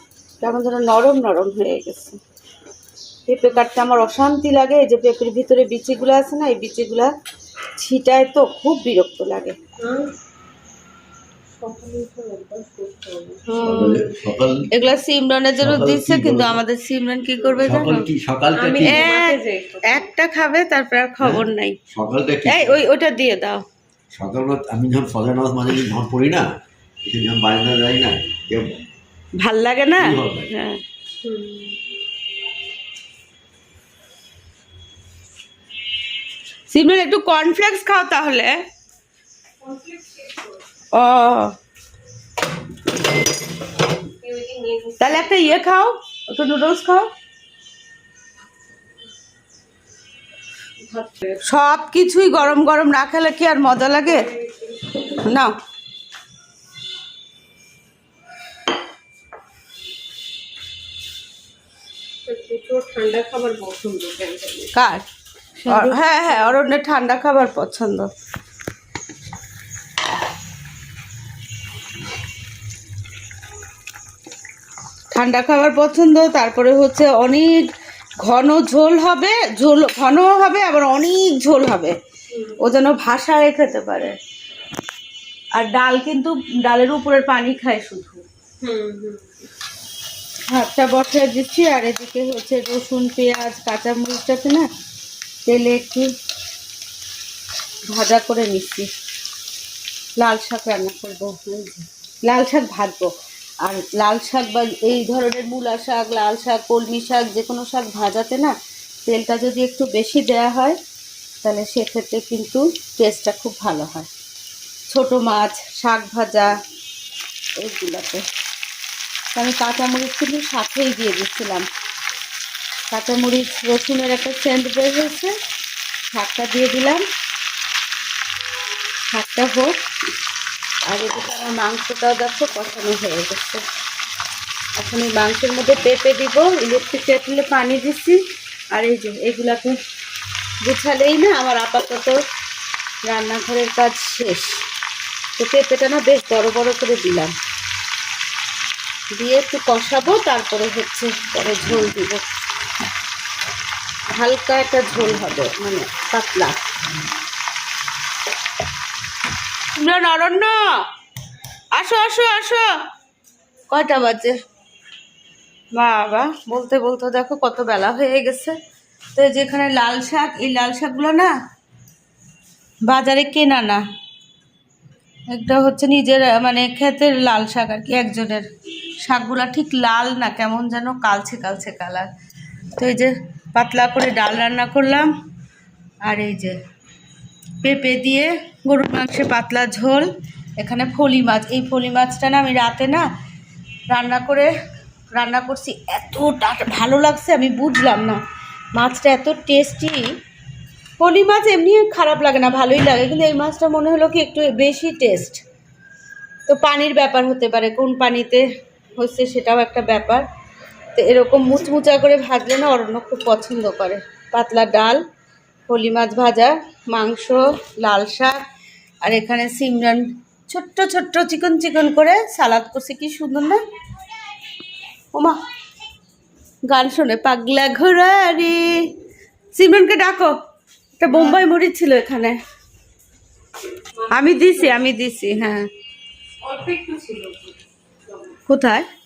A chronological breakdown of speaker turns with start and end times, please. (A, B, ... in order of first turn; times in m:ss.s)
0:00.4-0:02.2 A
0:03.3-0:07.1 A
0:07.8-0:09.6 A
0:09.8-0:10.1 B
0:11.6-0:14.0 B
0:13.5-0:14.0 A
0:13.6-0:14.7 C
0:14.7-0:18.1 A
0:15.6-0:16.6 C
0:17.6-0:19.1 C
0:18.5-0:20.1 B
0:18.8-0:21.8 A
0:21.2-0:22.8 C
0:22.4-0:23.6 A
0:24.1-0:26.5 C
0:27.0-0:28.8 C
0:29.4-0:30.8 A
0:30.0-0:30.5 C
0:31.2-0:31.8 B
0:36.7-0:38.6 A
0:39.6-0:40.6 B
0:40.9-0:41.5 A
0:44.2-0:45.6 B
0:45.0-0:47.1 A
0:50.8-0:51.4 B
0:51.4-0:54.2 A
0:54.0-0:55.2 B
0:55.2-0:55.5 A
1:02.2-1:04.7 B
1:04.7-1:05.0 A
1:05.6-1:06.5 B
1:05.7-1:08.1 A
1:15.1-1:17.6 A
1:18.2-1:22.0 A
1:22.3-1:22.6 B
1:22.6-1:24.2 A
1:25.5-1:28.2 A
1:28.6-1:29.3 B
1:30.5-1:34.7 A
1:35.4-1:36.1 A
1:37.9-1:38.9 A
1:40.2-1:43.1 A
1:43.6-1:48.5 A
1:49.1-1:50.8 A
1:51.4-1:54.1 A
1:54.9-1:56.5 A
1:57.6-1:58.2 A
1:59.3-2:01.6 A
2:02.9-2:05.3 A
2:06.1-2:07.0 A
2:09.1-2:09.8 A
2:10.9-2:13.6 A
2:14.8-2:18.2 A
2:18.7-2:19.8 A
2:20.6-2:22.2 A
2:23.0-2:24.6 A
2:25.4-2:27.3 A
2:29.1-2:32.2 A
2:34.1-2:36.6 A
2:39.7-2:40.8 A
2:41.7-2:42.8 A
2:43.7-2:44.4 A
2:45.7-2:48.6 A
2:49.2-2:51.3 A
2:52.8-2:53.8 A
2:55.3-2:58.5 A
2:59.0-3:02.1 A
3:02.8-3:05.1 A
3:06.0-3:06.6 A
3:07.6-3:13.1 A
3:13.9-3:14.5 A
3:15.1-3:18.2 A
3:18.8-3:20.2 A
3:21.0-3:25.4 A
3:26.5-3:28.4 A
3:29.0-3:30.3 A
3:31.0-3:35.0 A
3:35.7-3:38.4 A
3:39.0-3:43.6 A
3:45.1-3:45.4 A
3:46.7-3:48.7 A
3:49.5-3:50.4 A
3:51.0-3:52.4 A
3:51.1-3:51.4 B
3:54.0-3:54.8 B
3:54.1-3:55.7 A
3:56.4-3:58.4 B
3:58.5-3:58.9 A